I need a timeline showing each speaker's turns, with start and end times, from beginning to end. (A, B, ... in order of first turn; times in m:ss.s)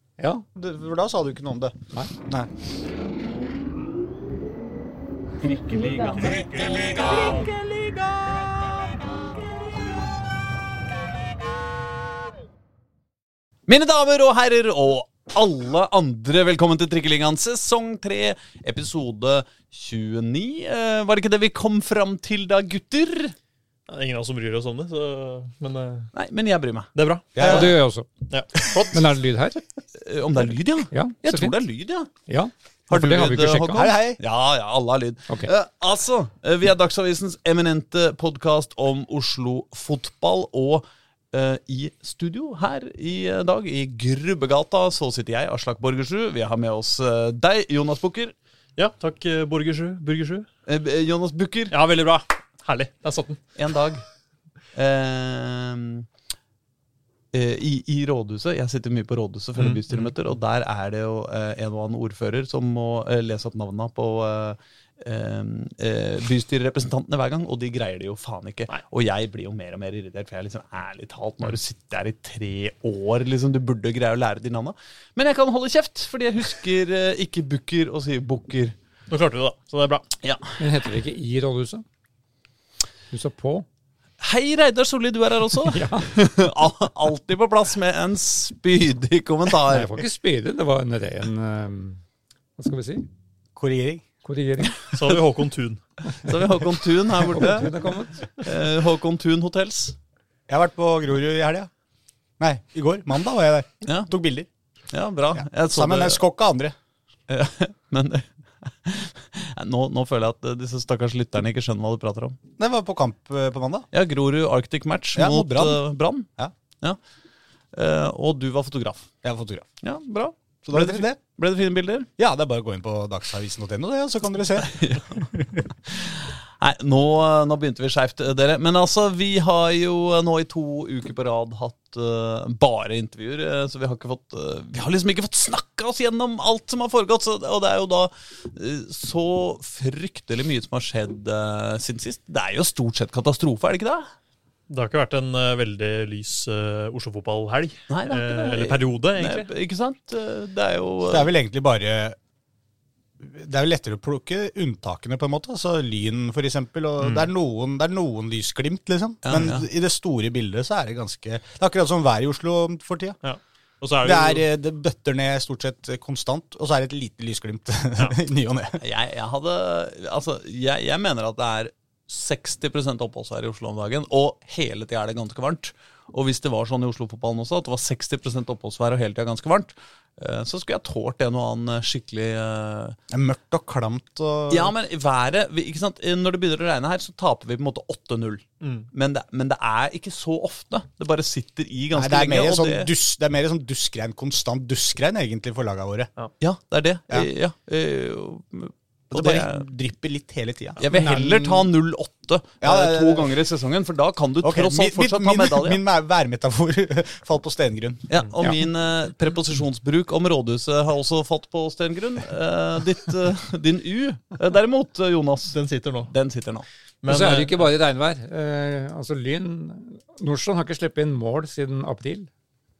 0:00.2-0:00.5 A
0:00.6-0:02.5 B
0:05.4-0:07.4 C
0:07.1-0:07.4 B
0:13.7-0:23.4 C
0:23.9-0:26.1 D
0:26.1-0:27.7 C
0:27.0-0:27.5 D
0:27.4-0:27.8 B
0:27.4-0:28.1 A
0:28.3-0:29.0 D
0:28.9-0:29.7 A
0:30.0-0:32.1 C
0:30.9-0:31.6 A
0:32.3-0:34.0 A
0:32.9-0:48.3 C
0:33.2-0:34.2 B
0:48.8-0:50.5 D
0:50.7-0:51.7 C
0:51.7-0:53.4 D
0:53.6-0:54.0 C
0:54.7-0:56.1 C
0:57.3-1:18.8 C
0:59.6-1:00.1 D
1:19.1-1:20.1 D
1:20.2-1:20.6 C
1:20.6-1:21.8 A
1:23.1-1:23.7 A
1:24.2-1:30.0 C
1:25.6-1:26.2 A
1:29.7-1:32.0 A
1:32.6-1:33.1 A
1:33.6-1:34.1 B
1:34.2-1:34.8 A
1:34.9-1:35.8 D
1:36.2-1:37.7 C
1:37.2-1:38.3 A
1:38.4-1:40.0 C
1:40.5-1:41.7 B
1:42.4-1:44.5 B
1:43.8-1:44.1 C
1:44.9-1:46.2 C
1:45.3-1:46.8 B
1:47.3-1:52.4 C
1:52.6-1:53.9 B
1:53.9-1:56.3 C
1:55.2-1:55.8 B
1:57.7-1:59.1 C
1:59.2-1:59.7 B
1:59.8-2:02.1 C
2:00.7-2:01.2 B
2:02.2-2:05.6 B
2:04.8-2:05.0 C
2:05.9-2:24.1 C
2:24.7-2:29.5 D
2:27.9-2:31.3 C
2:31.0-2:32.2 B
2:33.2-2:43.2 B
2:37.0-2:37.3 C
2:39.2-2:39.7 C
2:43.2-2:44.4 D
2:44.0-2:48.8 B
2:48.8-3:03.0 C
3:03.1-3:04.7 B
3:04.5-3:12.9 C
3:08.6-3:08.9 D
3:12.0-3:16.1 B
3:16.4-3:19.6 C
3:19.1-3:20.8 B
3:20.8-3:25.8 C
3:20.9-3:21.7 A
3:22.6-3:23.3 B
3:24.4-3:28.1 B
3:28.1-3:35.6 C
3:28.4-3:28.6 A
3:35.5-3:36.1 D
3:36.1-3:36.7 C
3:37.0-3:37.7 D
3:37.1-3:42.3 A